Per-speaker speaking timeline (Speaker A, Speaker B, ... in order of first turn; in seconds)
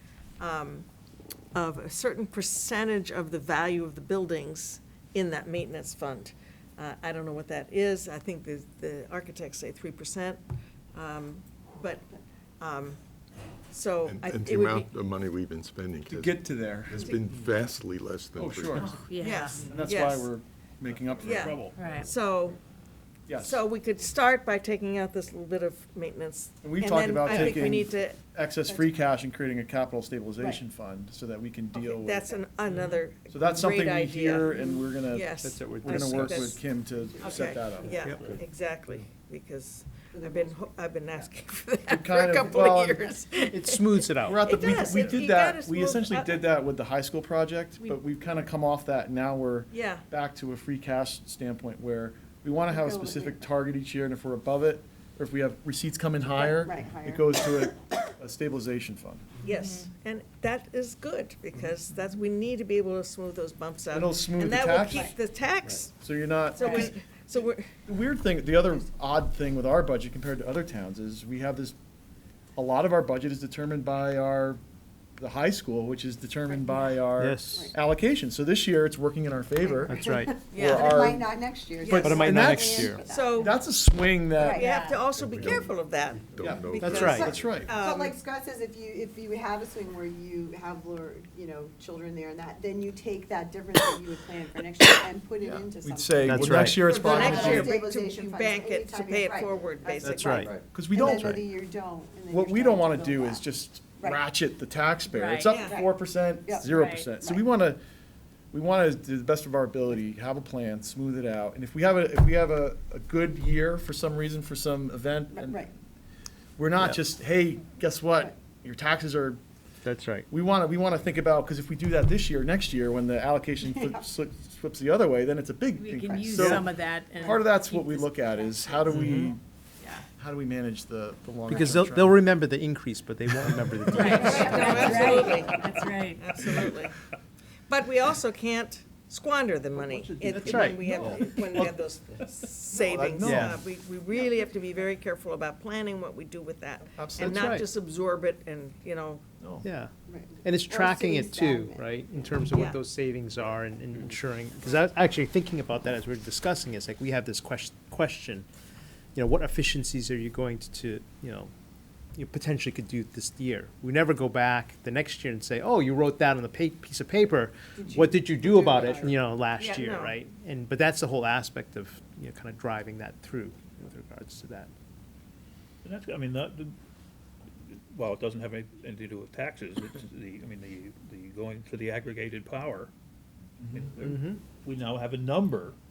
Speaker A: 0.4-0.9, 1.5-10.4, 10.9-12.1, 12.6-13.0, 13.7-14.9, 19.1-20.3, 21.2-22.6, 23.4-28.2, 31.8-34.5, 35.1-36.6, 37.2-46.5, 49.7-50.0, 59.4-65.9, 66.5-67.7, 80.5-81.0, 81.8-82.3, 83.0-83.6, 84.5-87.0, 87.6-88.2, 96.8-100.5, 105.5-105.8, 134.0-136.9, 137.7-149.2, 152.5-152.8, 169.6-170.2
Speaker B: 14.1-19.0, 85.1-87.7
Speaker C: 16.1-17.6, 18.4-19.0, 19.6-21.7, 23.3-23.6, 26.6-32.3, 33.3-38.1, 41.9-43.0, 44.2-59.3, 63.9-65.1, 65.9-66.9, 67.9-71.8, 72.6-74.6, 75.2-79.9, 80.5-81.3, 81.9-84.7, 86.4-87.7, 95.4-97.7, 100.7-101.4, 102.3-107.8, 108.5-115.7, 116.6-119.4, 120.3-129.4, 130.2-132.2, 140.5-141.2, 142.7-143.6, 147.0-147.7, 149.4-149.7, 183.6-183.9
Speaker D: 16.9-17.2, 28.6-29.0, 34.5-34.9, 36.8-38.0, 40.1-40.8, 52.7-53.5, 56.3-57.4, 64.9-65.2, 76.5-77.8, 79.6-83.5, 84.3-84.7, 86.6-103.4, 105.6-107.4, 115.3-115.7, 123.7-124.1, 134.2-135.5, 150.1-152.4, 167.8-169.2
Speaker E: 18.8-19.7, 21.8-22.1, 59.4-59.9, 66.6-66.9, 84.5-85.1, 105.1-105.5, 106.6-107.1, 125.8-128.9, 129.8-130.1, 133.9-136.2
Speaker F: 20.9-21.8, 175.8-176.8, 177.6-182.9, 183.7-185.8
Speaker G: 35.4-36.6, 43.4-44.5, 77.2-77.7, 79.8-80.3, 81.9-83.0, 86.7-87.3, 96.2-97.5, 100.0-101.4, 119.8-120.3, 128.9-129.3, 131.5-135.3, 139.8-141.7, 143.2-143.6, 147.2-147.7, 149.6-149.9, 150.4-158.5, 159.2-161.5, 162.2-174.7, 184.0-184.4